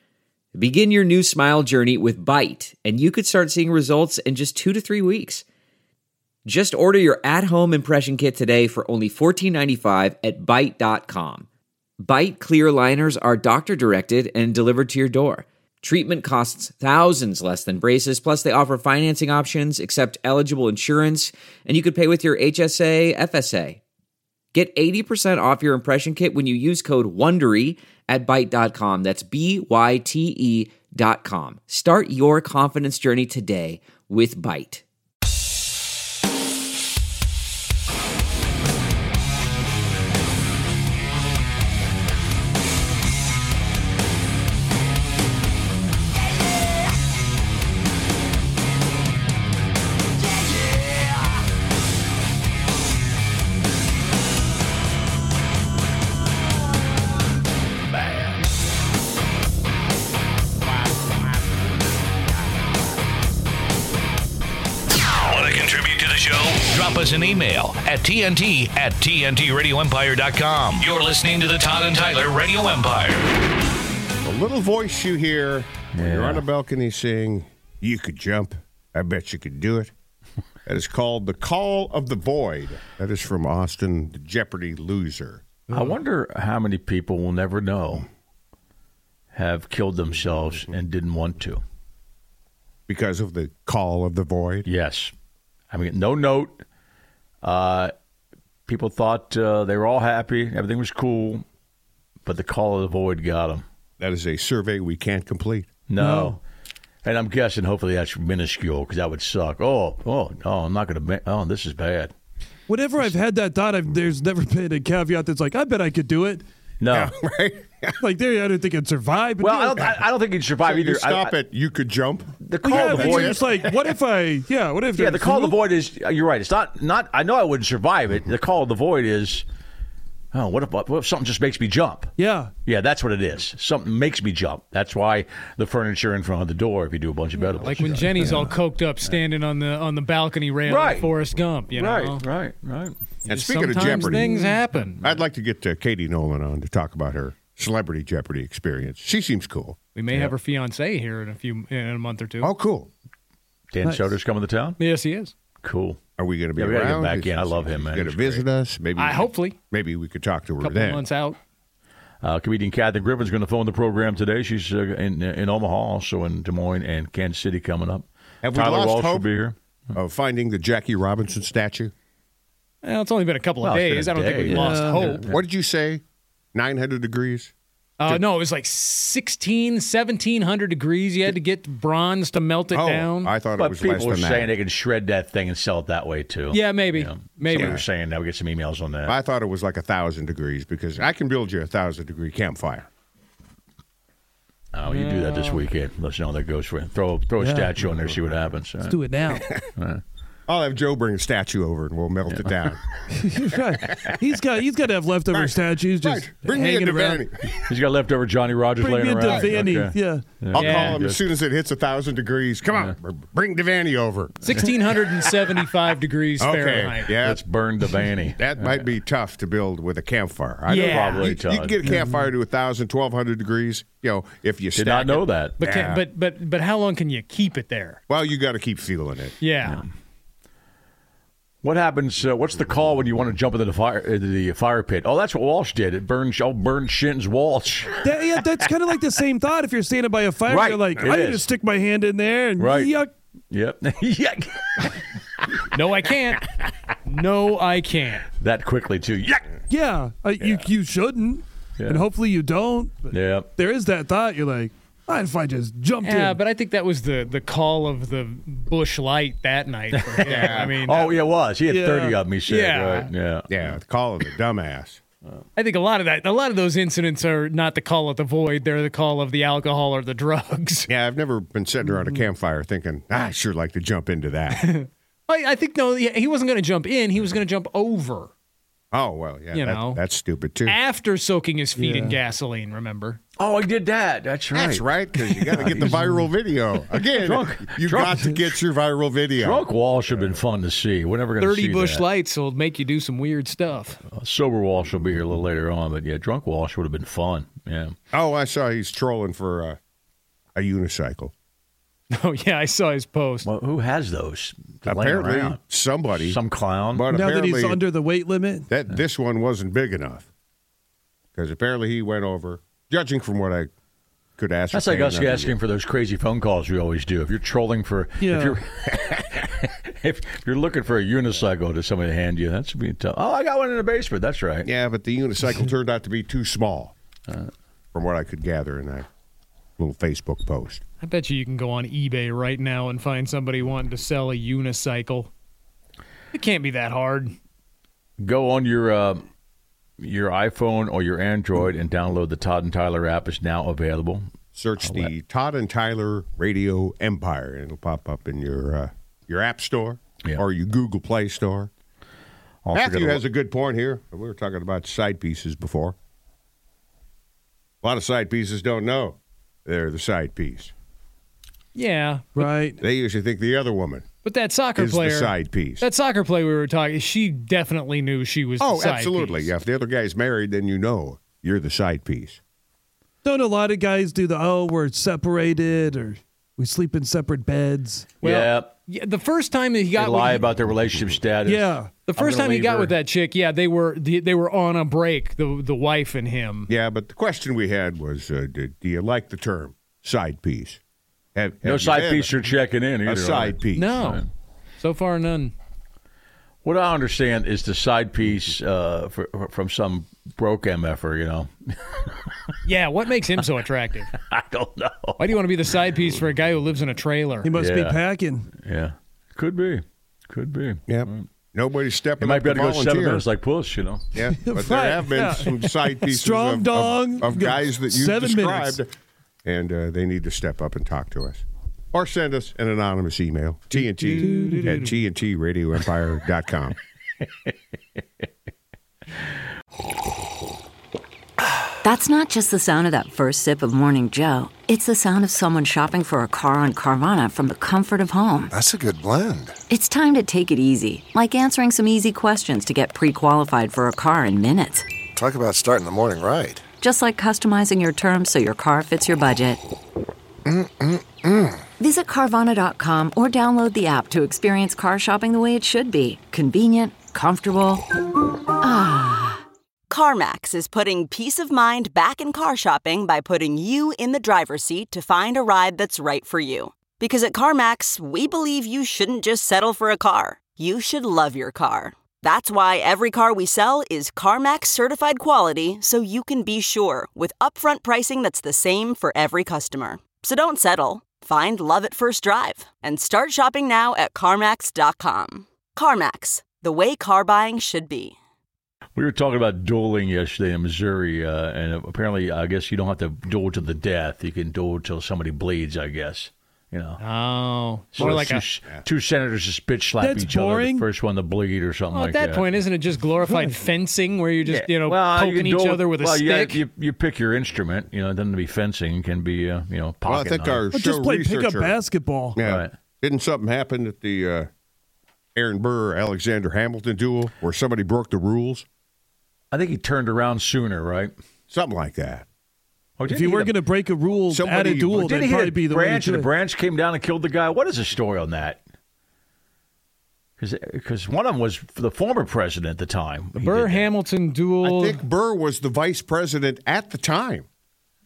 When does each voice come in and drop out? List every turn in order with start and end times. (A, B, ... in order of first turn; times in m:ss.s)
0:00.6-0:05.4 A
0:06.4-0:11.5 A
0:12.0-0:23.8 A
0:24.5-0:34.8 A
1:05.3-1:13.3 B
1:14.2-1:19.9 C
1:16.0-1:16.5 D
1:20.7-1:25.6 C
1:25.7-1:28.1 D
1:29.3-1:31.6 D
1:32.9-1:34.7 C
1:34.7-1:35.1 D
1:35.7-1:36.6 D
1:37.4-1:37.9 D
1:38.7-1:41.4 D
1:42.2-1:43.6 D
1:44.0-1:45.7 C
1:45.9-1:46.4 D
1:46.0-1:46.4 E
1:47.0-1:52.1 D
1:52.7-1:56.4 E
1:56.8-1:57.1 D
1:56.9-1:58.0 C
1:58.0-2:00.0 E
1:59.4-2:01.4 D
2:00.6-2:03.4 C
2:02.4-2:03.5 D
2:02.6-2:05.6 E
2:05.0-2:09.4 D
2:10.3-2:12.1 D
2:12.2-2:12.5 E
2:12.7-2:18.5 D
2:17.6-2:22.2 F
2:20.7-2:21.2 D
2:21.7-2:23.0 D
2:23.3-2:25.1 F
2:23.3-2:24.4 C
2:23.8-2:24.6 E
2:25.0-2:29.8 C
2:30.0-2:32.5 F
2:32.4-2:32.9 C
2:33.7-2:34.8 D
2:33.8-2:34.1 E
2:34.8-2:35.3 F
2:35.6-2:36.0 D
2:36.2-2:41.0 C
2:36.6-2:38.5 D
2:39.0-2:39.6 F
2:40.6-2:41.4 F
2:42.2-2:49.6 D
2:48.4-2:49.3 C
2:50.0-2:51.9 C
2:52.8-2:55.3 F
2:53.6-2:54.7 D
2:54.5-2:55.1 E
2:55.0-2:56.0 C
2:56.5-2:57.5 C
2:58.0-3:03.3 F
3:02.7-3:04.5 C
3:03.6-3:09.2 D
3:06.5-3:07.8 F
3:07.5-3:07.8 C
3:09.1-3:12.9 C
3:14.7-3:19.0 D
3:14.9-3:15.6 F
3:17.4-3:17.8 E
3:18.8-3:19.5 E
3:19.3-3:19.6 C
3:19.6-3:20.0 D
3:20.5-3:22.9 C
3:22.3-3:22.7 D
3:23.1-3:27.3 E
3:25.3-3:27.6 C
3:27.5-3:31.2 D
3:28.8-3:30.4 E
3:29.2-3:29.7 C
3:30.5-3:34.6 C
3:30.6-3:31.0 F
3:34.4-3:37.1 F
3:36.4-3:37.4 C
3:37.2-3:38.8 D
3:38.4-3:46.0 C
3:40.7-3:41.3 F
3:40.8-3:41.9 D
3:44.8-3:45.6 D
3:45.6-3:48.0 F
3:48.1-3:49.4 C
3:49.4-3:49.8 F
3:51.6-3:58.3 D
3:58.0-4:03.1 E
4:00.5-4:01.5 D
4:02.6-4:03.0 D
4:03.5-4:05.0 D
4:05.7-4:08.3 F
4:08.4-4:09.6 D
4:09.7-4:16.4 E
4:10.4-4:10.6 D
4:11.8-4:12.0 D
4:13.1-4:13.5 D
4:16.0-4:21.1 F
4:19.9-4:23.8 D
4:20.3-4:20.8 C
4:21.7-4:22.2 E
4:22.5-4:23.1 F
4:23.5-4:25.0 C
4:25.6-4:30.9 F
4:30.9-4:34.6 C
4:34.5-4:38.3 F
4:38.9-4:40.8 C
4:39.5-4:40.0 F
4:40.7-4:43.2 F
4:41.8-4:42.2 E
4:43.4-4:46.1 D
4:44.5-4:49.7 C
4:45.9-4:46.3 E
4:47.0-4:48.2 D
4:49.4-4:52.0 D
4:51.4-4:54.0 F
4:54.1-4:58.0 D
4:58.1-4:59.8 C
5:00.6-5:01.3 C
5:02.1-5:03.5 F
5:03.4-5:07.1 D
5:04.9-5:06.4 C
5:06.9-5:07.8 C
5:07.1-5:08.7 E
5:08.7-5:10.3 C
5:11.4-5:13.7 C
5:14.4-5:15.5 C
5:14.7-5:24.7 D
5:18.2-5:18.6 E
5:24.6-5:26.9 C
5:27.9-5:29.1 C
5:29.8-5:30.8 C
5:31.0-5:35.3 F
5:36.3-5:37.4 F
5:38.2-5:39.2 D
5:40.0-5:44.2 D
5:44.6-5:51.7 C
5:44.8-5:45.1 D
5:52.6-5:53.2 D
5:52.7-5:56.0 C
5:57.8-6:00.7 C
6:01.8-6:02.3 F
6:02.4-6:02.8 E
6:02.8-6:04.0 C
6:04.2-6:09.5 F
6:04.8-6:05.9 C
6:08.6-6:12.4 C
6:13.2-6:18.1 E
6:18.2-6:18.7 D
6:18.2-6:20.4 F
6:20.0-6:22.9 D
6:21.4-6:21.9 E
6:22.1-6:26.7 F
6:26.7-6:30.8 C
6:31.4-6:32.3 C
6:31.6-6:34.3 D
6:33.1-6:34.1 C
6:33.7-6:34.2 F
6:34.8-6:35.5 F
6:36.6-6:42.6 D
6:42.6-6:44.1 F
6:44.1-6:45.2 D
6:45.2-6:47.5 F
6:47.4-6:48.5 E
6:47.6-6:48.0 D
6:48.6-6:51.3 D
6:50.9-6:53.3 C
6:52.2-6:54.1 D
6:54.1-6:58.9 C
6:54.3-6:58.8 E
6:59.4-7:06.8 C
7:03.8-7:04.9 E
7:11.8-7:18.4 G
7:12.1-7:18.4 A
7:18.5-7:19.5 H
7:19.7-7:24.8 G
7:19.8-7:24.8 A
7:25.2-7:26.6 H
7:26.8-7:29.6 G
7:26.8-7:29.5 A
7:30.6-7:31.4 H
7:31.8-7:37.8 G
7:32.1-7:32.4 A
7:33.0-7:36.0 A
7:38.6-7:39.4 G
7:39.9-8:08.2 I
8:09.0-8:17.0 D
8:17.0-8:18.4 F
8:17.9-8:22.5 D
8:20.0-8:20.8 E
8:21.9-8:26.6 F
8:24.5-8:30.7 D
8:30.1-8:31.8 C
8:30.7-8:32.4 E
8:32.4-8:34.5 C
8:32.4-8:32.7 D
8:35.4-8:38.7 C
8:39.5-8:41.1 D
8:41.5-8:42.3 C
8:43.0-8:43.6 D
8:43.1-8:46.3 E
8:44.3-8:45.0 C
8:44.9-8:48.6 D
8:50.4-8:53.9 D
8:53.4-8:55.0 F
8:54.6-8:57.5 C